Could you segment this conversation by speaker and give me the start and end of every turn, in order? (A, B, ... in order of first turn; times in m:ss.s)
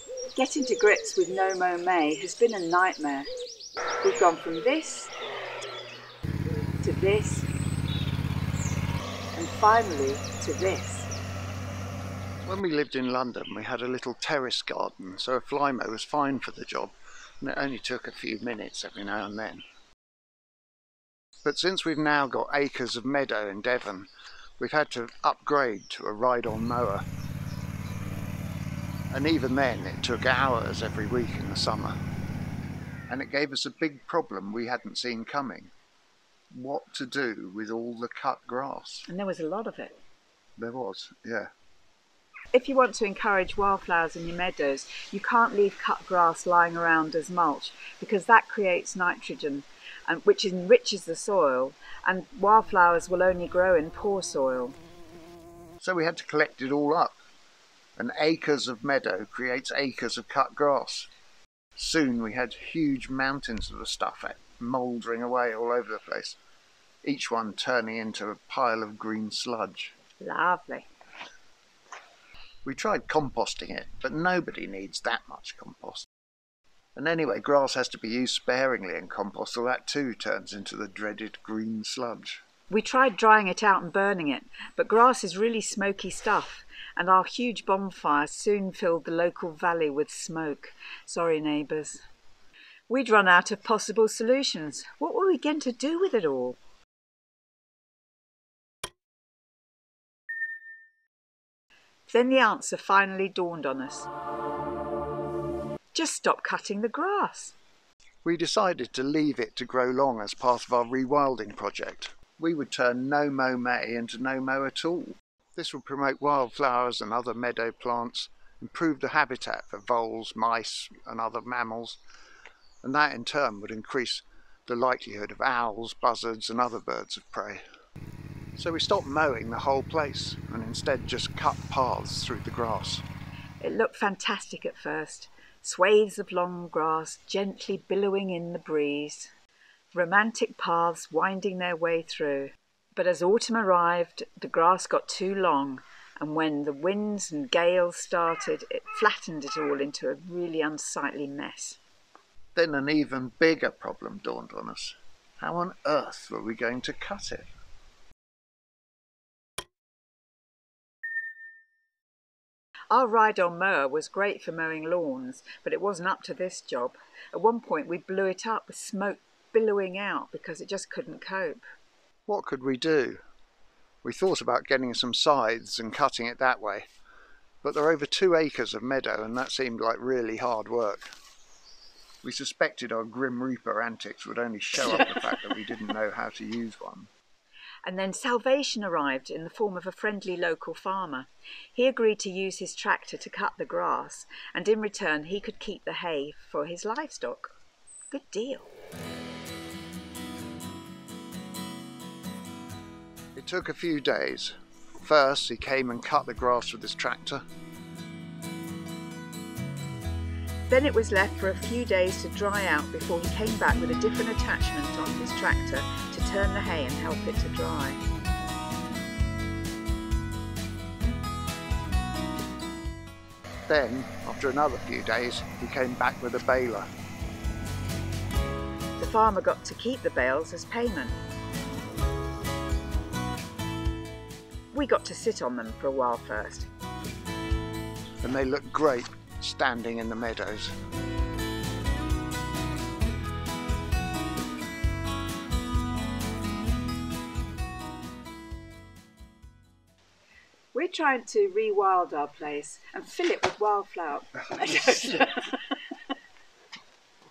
0:00.4-0:03.3 A
0:04.0-0:05.1 A
0:06.8-0:07.5 A
0:09.3-0:11.1 A
0:12.4-0:19.6 B
0:21.4-0:27.0 B
0:29.1-0:31.9 B
0:33.1-0:35.7 B
0:36.5-0:39.1 B
0:39.1-0:40.0 A
0:40.6-0:41.5 B
0:42.5-0:54.8 A
0:55.8-0:57.2 B
0:58.0-1:01.1 B
1:01.8-1:06.4 B
1:07.0-1:10.0 B
1:10.2-1:10.9 A
1:12.6-1:16.1 B
1:17.0-1:22.4 B
1:22.7-1:32.0 A
1:32.9-1:36.6 A
1:42.1-1:44.1 A
1:45.9-1:47.6 A
1:48.2-2:02.0 B
2:02.8-2:07.6 B
2:08.6-2:13.0 B
2:13.6-2:19.3 A
2:19.9-2:31.8 A
2:32.6-2:37.5 B
2:42.9-2:51.6 A
2:52.3-2:53.2 B
2:54.0-2:56.9 B
2:57.6-3:01.1 B
3:02.2-3:07.1 B
3:07.8-3:17.5 A
3:18.1-3:18.7 A
3:23.4-3:27.4 B
3:30.7-3:38.0 A
3:43.7-3:46.9 B
3:49.0-3:51.2 A
3:54.7-3:56.7 A
3:58.2-4:00.7 B
4:10.7-4:15.5 A